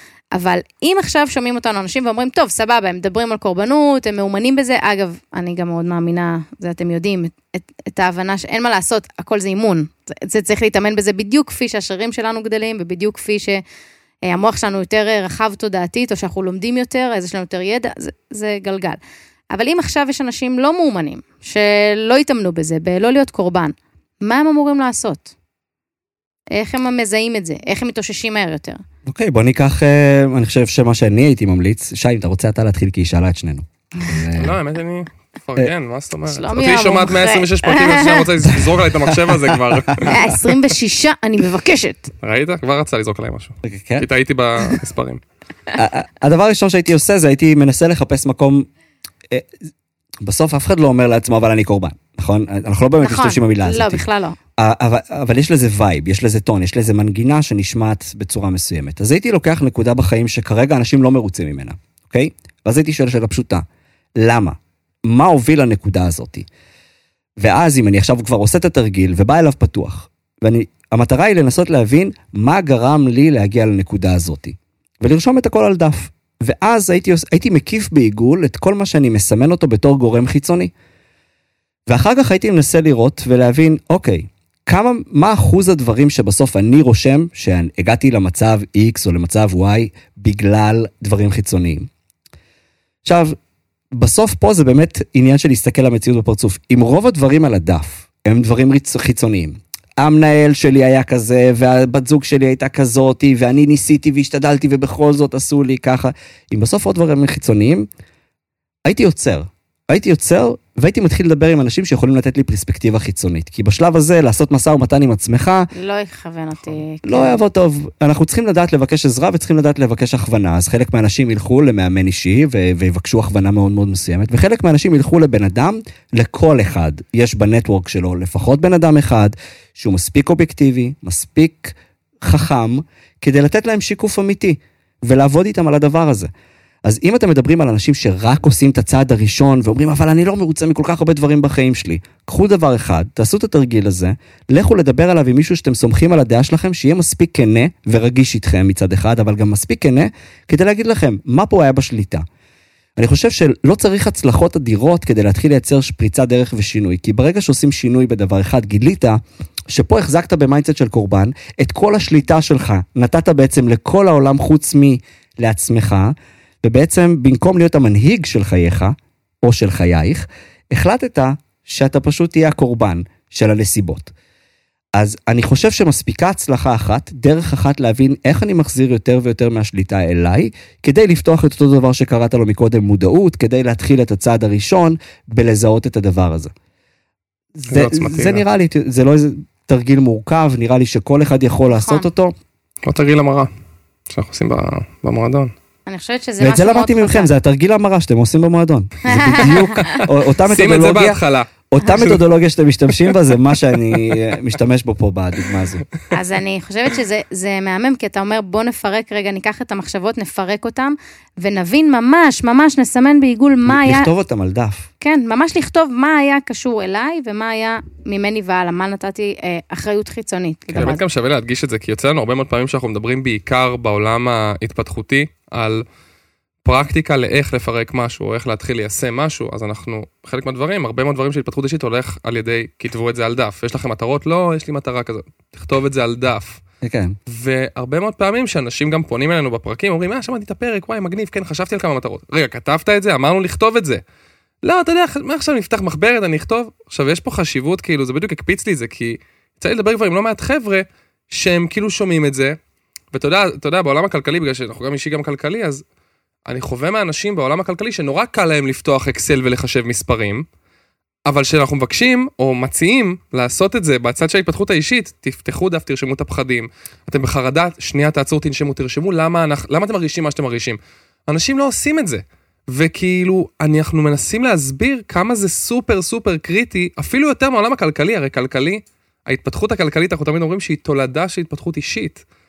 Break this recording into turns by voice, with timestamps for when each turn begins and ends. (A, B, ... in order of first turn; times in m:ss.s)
0:00.3-0:13.6 A
0:14.3-0:19.0 A
0:19.5-0:25.3 A
0:26.5-0:28.8 A
0:29.1-0:34.5 B
0:34.4-0:40.2 C
0:36.3-0:38.3 A
0:39.0-0:40.1 B
0:40.0-0:42.1 A
0:42.2-0:45.2 C
0:43.6-0:44.1 B
0:45.7-0:48.7 B
0:50.2-0:54.0 B
0:53.0-0:54.4 A
0:54.6-1:03.6 B
1:04.2-1:06.5 B
1:07.4-1:20.7 B
1:21.9-1:31.9 B
1:33.0-1:33.4 B
1:34.0-1:47.9 B
1:48.8-1:55.7 B
1:55.7-1:57.4 A
1:57.0-2:16.3 B
2:16.8-2:32.2 B
2:33.0-2:54.1 B
2:55.0-3:06.5 B
3:07.6-3:12.4 B
3:07.7-3:08.4 C
3:11.7-3:12.1 A
3:12.8-3:13.5 C
3:14.1-3:15.5 C
3:15.9-3:17.3 A
3:16.4-3:25.8 B
3:19.1-3:20.0 A
3:19.8-3:21.5 C
3:26.1-3:34.1 A
3:33.6-3:34.9 B
3:35.0-3:41.0 A
3:40.8-3:45.8 C
3:46.6-3:56.6 C
3:56.8-3:57.2 B
3:57.3-4:04.0 C
4:04.6-4:12.6 C
4:13.1-4:15.8 C
4:16.5-4:20.5 C
4:21.3-4:42.2 C